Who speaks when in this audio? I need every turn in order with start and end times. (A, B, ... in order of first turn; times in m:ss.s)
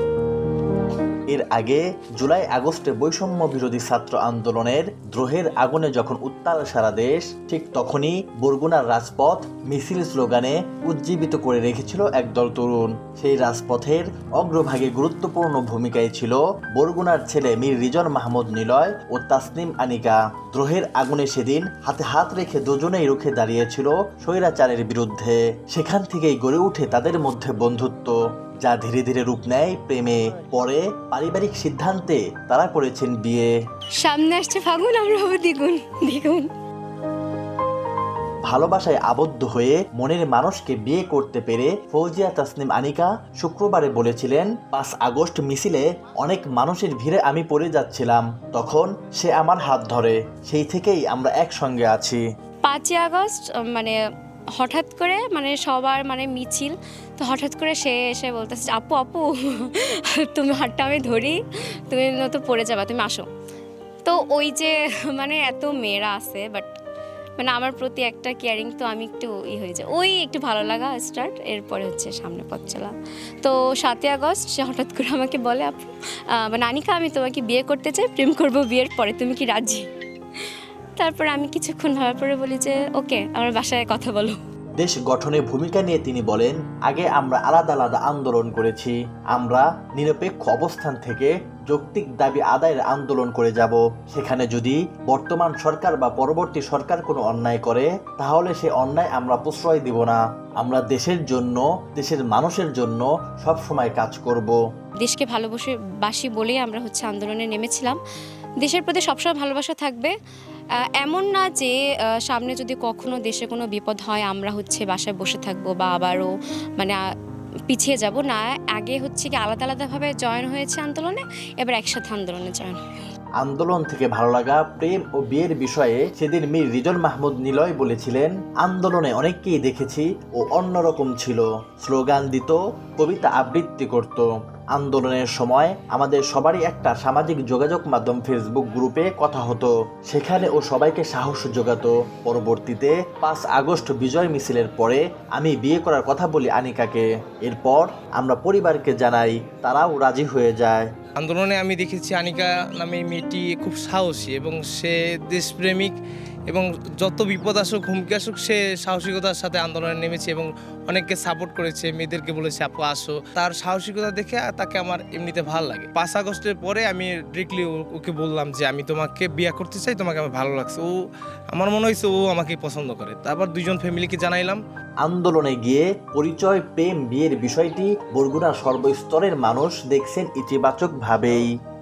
0:01.3-0:33.5 A
0:34.0-0:36.5 B
0:38.5-0:52.2 A
0:52.6-0:53.9 B
0:54.6-1:01.4 B
1:01.9-1:03.2 B
1:04.0-1:06.7 B
1:07.4-1:19.8 B
1:21.0-1:24.4 B
1:24.8-1:44.6 A
1:45.0-1:48.0 B
1:48.6-1:50.1 B
1:51.0-1:51.7 B
1:52.2-1:57.0 B
1:57.7-2:02.8 B
2:03.4-2:30.9 A
2:31.2-2:36.0 C
2:36.5-2:50.9 C
2:51.5-2:54.6 C
2:55.0-3:01.5 A